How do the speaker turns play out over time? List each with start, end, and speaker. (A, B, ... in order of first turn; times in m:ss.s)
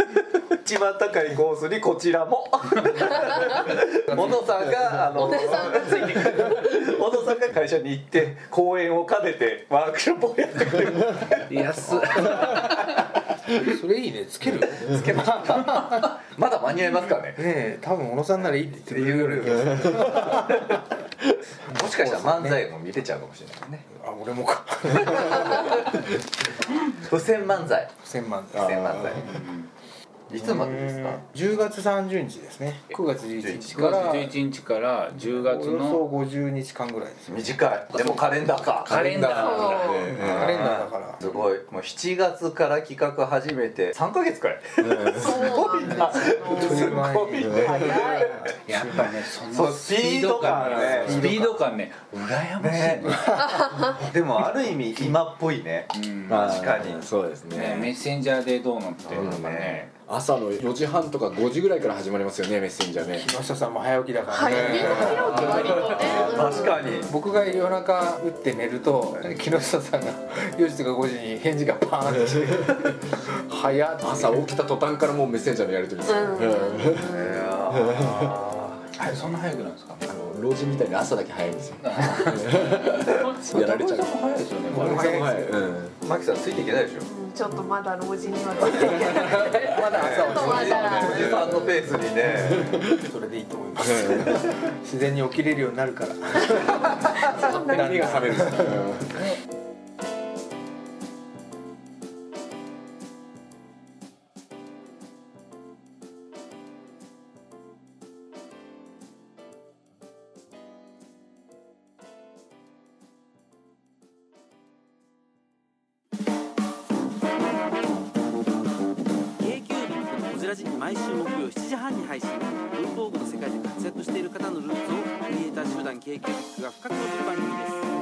0:00.6-0:11.4 A
0:04.1-0:04.4 B
0:05.2-0:06.4 C
0:11.4-0:13.0 B
0:12.1-0:12.5 D
0:13.7-0:15.9 D
0:14.9-0:17.5 A
0:17.4-0:20.6 D
0:18.4-0:20.8 A
0:21.7-0:22.7 D
0:21.7-0:23.9 A
0:24.0-0:25.9 D
0:27.0-0:28.0 A
0:28.0-0:29.2 D
0:28.5-0:29.3 A
0:29.2-0:29.7 B
0:30.3-0:31.3 A
0:30.4-0:34.4 D
0:33.4-0:33.8 A
0:33.7-0:36.0 B
0:35.3-0:38.3 D
0:37.3-0:39.0 A
0:38.8-0:40.8 E
0:38.9-0:40.1 B
0:39.1-0:39.4 D
0:39.3-0:40.1 C
0:40.1-0:41.3 D
0:40.3-0:48.6 A
0:44.8-0:45.4 E
0:45.2-0:47.0 C
0:45.8-0:46.1 B
0:46.1-0:48.2 D
0:47.4-0:47.8 E
0:47.6-0:48.4 C
0:48.6-0:53.6 B
0:48.7-0:49.0 D
0:49.5-0:51.3 A
0:50.4-0:51.3 E
0:50.5-0:51.6 D
0:52.6-0:53.3 A
0:53.3-0:54.0 D
0:54.1-0:55.9 A
0:55.9-0:56.7 B
0:56.3-0:57.9 E
0:56.6-0:57.0 A
0:57.5-0:59.9 B
0:59.0-0:59.8 A
0:59.2-1:03.3 E
1:03.1-1:06.5 D
1:04.3-1:06.8 C
1:04.4-1:06.3 E
1:06.1-1:07.1 A
1:07.1-1:14.4 D
1:14.0-1:18.3 E
1:16.1-1:17.2 C
1:17.1-1:18.9 A
1:18.9-1:20.0 B
1:20.1-1:24.2 E
1:21.8-1:25.4 B
1:24.7-1:26.0 E
1:24.7-1:25.6 D
1:26.0-1:27.1 A
1:27.1-1:31.3 C
1:28.9-1:29.5 E
1:29.1-1:31.9 D
1:29.9-1:32.9 A
1:31.1-1:31.4 E
1:32.5-1:38.8 D
1:33.8-1:34.4 E
1:37.2-1:38.4 C
1:37.3-1:39.1 E
1:59.4-2:07.8 F